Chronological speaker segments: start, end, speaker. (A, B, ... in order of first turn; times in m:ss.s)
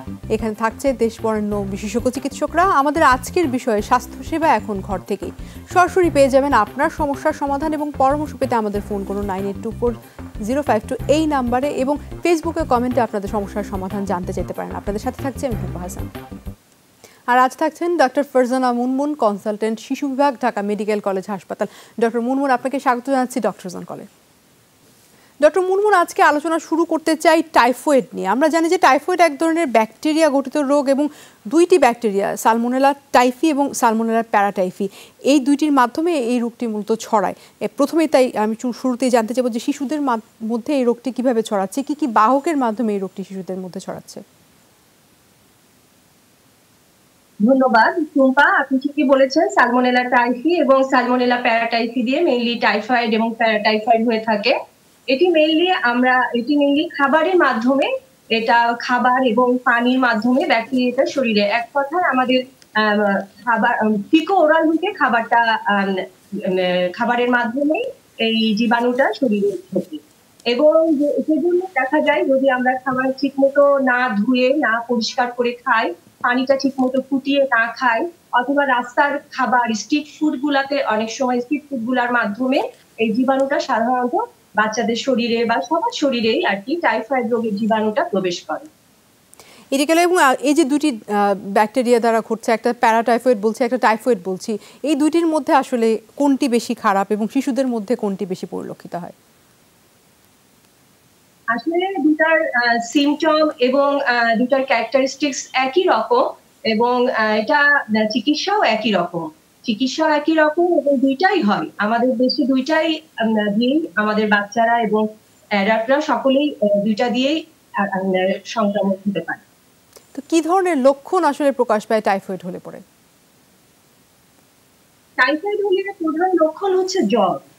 0:00.3-0:16.1 A
0:17.3-0:24.1 A
0:25.4-0:44.2 A
0:47.4-0:54.5 B
0:55.1-1:06.0 B
1:06.5-1:28.7 B
1:29.7-1:39.1 A
1:41.5-1:52.9 B
1:53.5-1:55.0 B
1:55.6-1:59.4 B
2:00.1-2:02.8 A
2:05.2-2:07.4 B